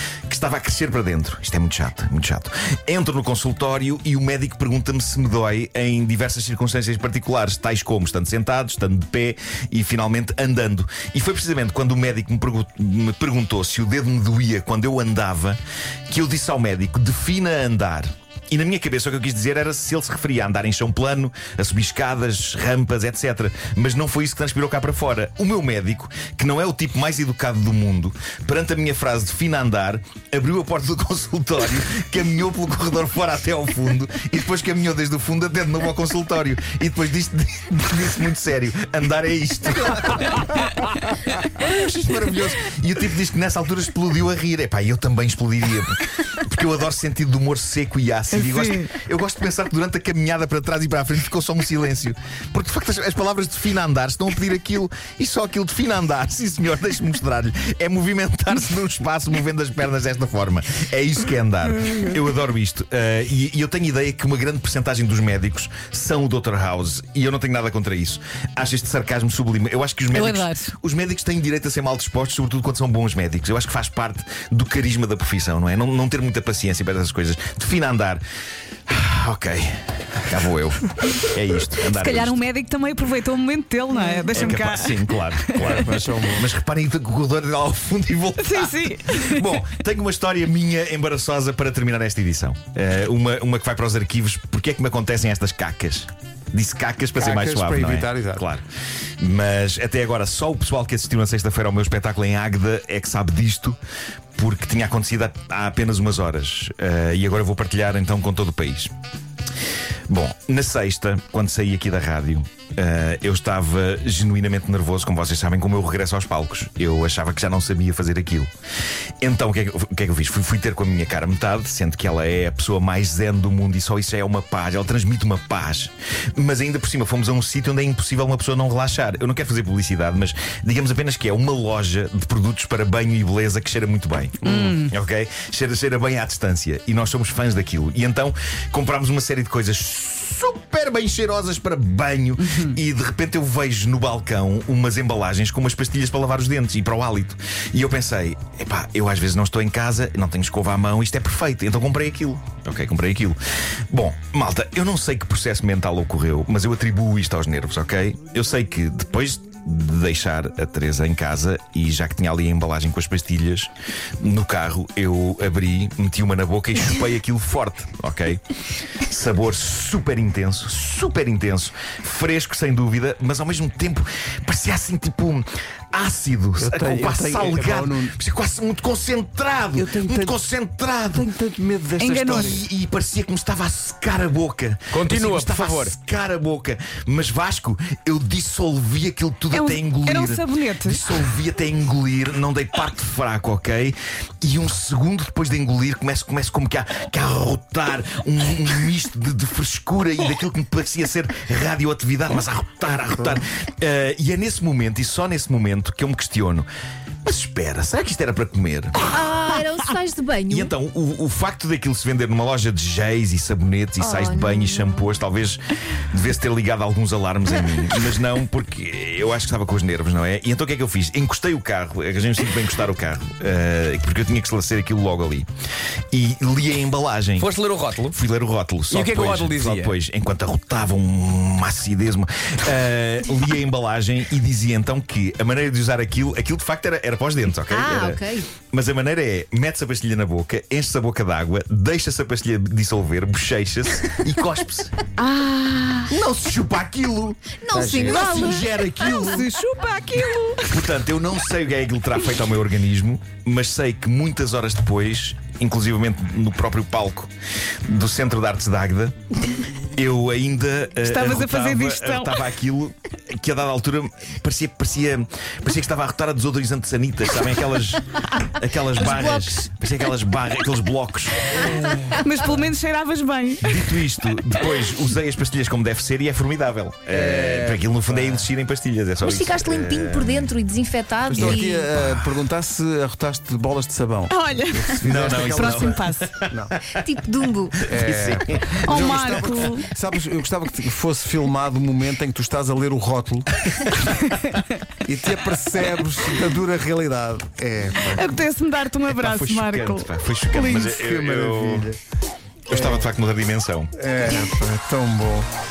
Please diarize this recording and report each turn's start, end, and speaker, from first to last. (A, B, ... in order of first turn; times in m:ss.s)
0:00.3-1:18.2 A
0:48.3-0:48.9 B
1:10.1-1:10.7 B
1:18.9-1:22.4 A
1:21.9-1:25.8 B
1:24.3-1:38.6 A
1:25.6-1:26.4 C
1:28.4-1:29.6 B
1:37.2-1:38.5 C
1:39.2-1:43.8 A
1:44.4-1:48.9 A
1:50.1-1:58.5 A
1:59.2-2:33.4 A
2:14.4-2:14.9 B
2:22.4-2:22.8 B
2:33.9-2:43.7 A
2:44.2-2:48.4 A
2:49.0-3:01.3 A
2:56.6-2:58.1 C
2:59.8-3:00.4 C
3:01.1-3:02.6 C
3:02.0-3:02.6 B
3:02.1-3:26.7 A
3:04.9-3:06.0 D
3:09.5-3:11.0 B
3:27.2-3:29.2 A
3:29.1-3:30.7 E
3:30.5-3:45.5 A
3:34.0-3:35.1 E
3:46.1-3:47.5 A
3:47.4-3:48.2 D
3:48.1-4:05.0 A
3:48.9-3:49.9 D
3:57.7-3:58.5 E
4:05.2-4:06.2 B
4:06.1-4:09.5 A
4:07.6-4:09.5 E
4:08.0-4:10.9 B
4:10.7-4:17.3 A
4:17.9-4:19.2 A
4:19.9-4:31.7 A
4:21.0-4:22.4 B
4:29.0-4:29.6 E
4:31.8-4:32.1 C
4:32.2-4:33.9 B
4:33.6-4:40.5 A
4:37.1-4:38.4 C
4:39.2-4:41.7 E
4:41.3-4:46.8 C
4:41.3-4:41.9 B
4:42.0-4:42.3 A
4:44.3-4:46.3 B
4:45.0-4:46.5 A
4:46.9-4:47.8 E
4:47.8-4:49.3 A
4:47.9-4:53.9 C
4:48.8-4:49.9 B
4:54.1-4:54.8 B
4:55.0-4:58.4 C
4:58.0-5:00.9 B
4:59.1-5:01.9 A
5:00.7-5:02.0 C
5:02.7-5:03.9 A
5:02.7-5:03.1 C
5:04.0-5:05.5 C